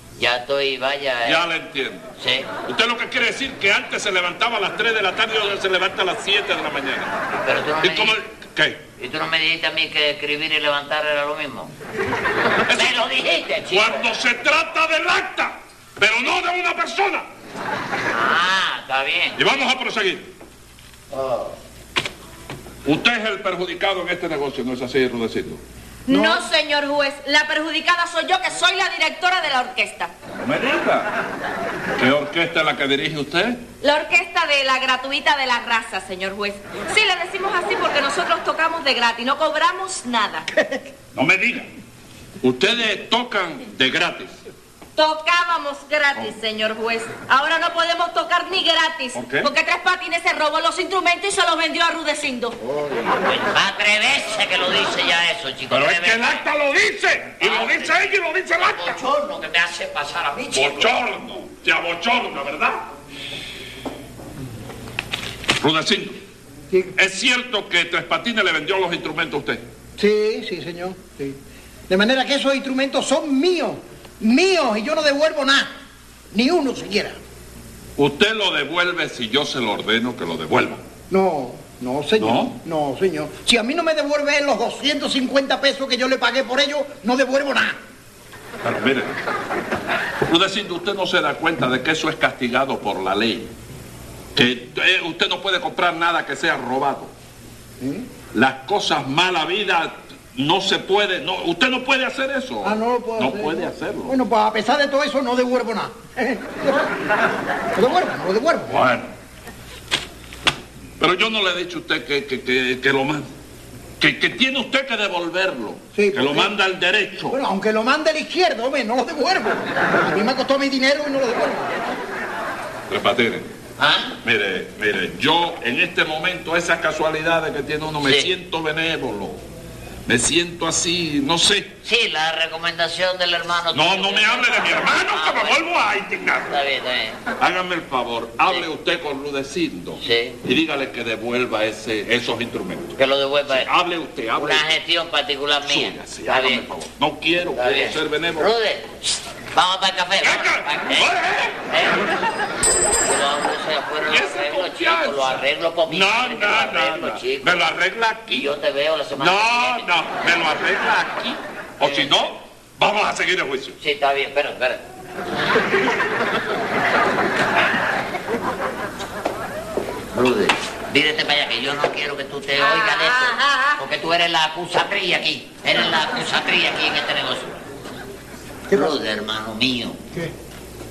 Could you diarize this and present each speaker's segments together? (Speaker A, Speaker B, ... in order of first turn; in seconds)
Speaker A: 0.2-1.4, 2.2-2.5, 7.4-8.2, 9.0-11.7, 12.7-14.1, 18.1-19.4, 21.1-21.6, 52.6-56.5, 57.4-58.0, 58.6-60.9, 123.8-124.2, 128.0-128.3, 131.8-135.7, 136.5-137.2, 140.0-140.4, 143.0-143.7, 144.4-146.7, 147.6-151.1, 151.7-152.1, 153.0-157.7, 158.3-159.9, 161.8-162.1, 163.8-164.8, 170.1-177.6, 178.7-180.0
Speaker B: 1.2-2.1, 2.6-7.1, 7.8-8.8, 12.7-13.1, 13.7-17.3, 19.4-20.3, 22.9-25.6, 30.4-31.1, 32.0-33.6, 41.1-41.7, 42.4-44.4, 49.1-49.5, 55.7-59.0, 60.5-62.8, 65.6-66.2, 67.0-69.6, 78.0-80.8, 82.2-82.6, 88.6-89.2, 90.3-93.5, 94.3-97.1, 98.3-104.1, 108.7-109.1, 111.0-113.3, 114.0-117.4, 122.9-123.5, 124.2-129.4, 130.1-131.7, 133.7-136.5, 137.4-142.9, 143.5-144.7, 145.6-148.5, 150.2-151.6, 154.1-158.5, 159.2-163.8
Speaker C: 26.1-30.1, 33.8-40.5, 45.0-52.6, 172.6-173.8
Speaker D: 26.1-26.5, 70.0-71.4, 71.9-75.7, 76.3-77.2, 81.1-87.8, 97.8-98.1, 102.6-106.9, 107.8-108.8, 116.0-116.5, 117.3-121.8